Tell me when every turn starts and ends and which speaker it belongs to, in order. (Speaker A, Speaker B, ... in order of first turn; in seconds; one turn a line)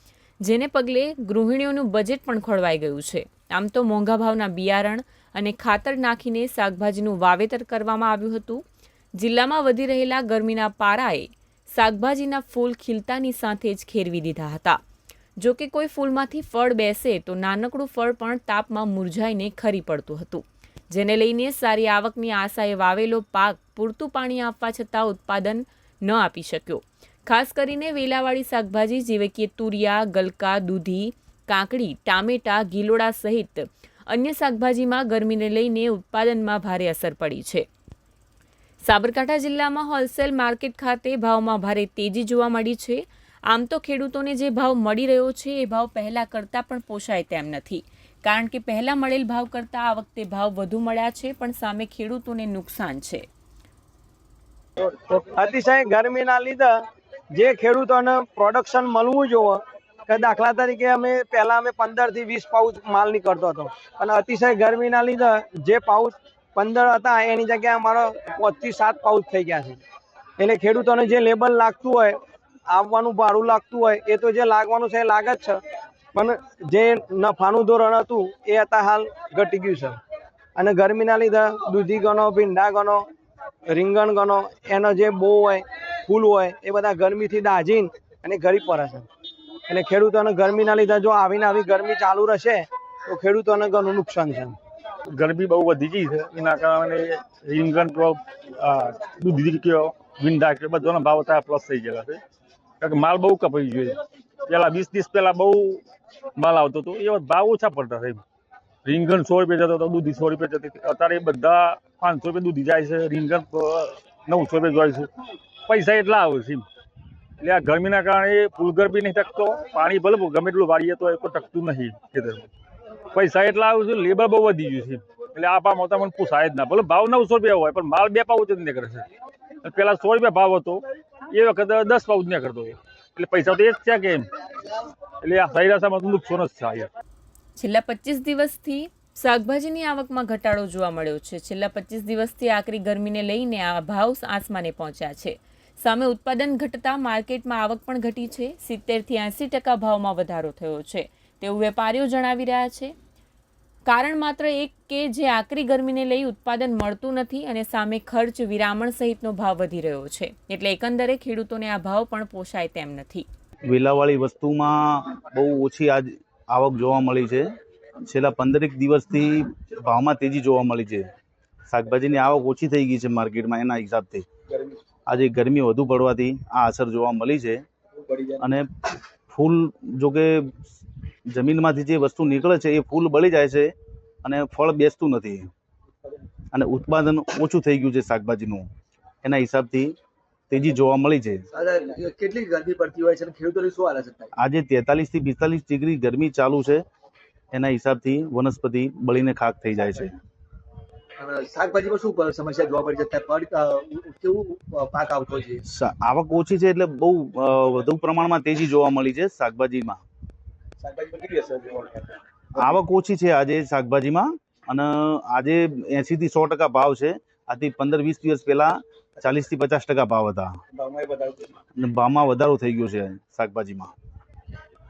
Speaker A: 0.4-8.6
Speaker A: 9.2-14.8
Speaker A: 15.4-37.6
Speaker A: 38.8-53.2
Speaker B: 54.8-56.8
Speaker B: 57.3-69.8
Speaker B: 70.4-72.2
Speaker B: 72.7-75.6
Speaker B: 76.1-80.0
Speaker B: 80.5-83.0
Speaker B: 83.7-89.0
Speaker B: 89.7-94.5
Speaker C: 95.1-102.2
Speaker C: 102.8-105.8
Speaker C: 106.3-108.2
Speaker C: 108.8-115.1
Speaker C: 115.7-116.7
Speaker C: 117.4-122.5
Speaker C: 123.1-129.1
Speaker C: 129.6-134.3
Speaker C: 135.2-136.9
Speaker A: 137.6-152.9
Speaker A: 153.9-163.3
Speaker D: 163.7-167.5
Speaker D: 168.0-171.1
Speaker D: 171.7-174.2
Speaker D: 175.1-177.6
Speaker D: 178.3-180.7
Speaker D: 181.3-183.7
Speaker D: 184.2-185.5
Speaker D: 186.5-188.7
Speaker D: 189.2-189.9
Speaker D: 190.5-191.5
Speaker E: 191.6-194.3
Speaker D: 194.3-196.8
Speaker D: 197.5-200.2
Speaker E: 201.2-205.6
Speaker D: 205.6-210.0
Speaker D: 212.5-220.6
Speaker D: 221.8-223.9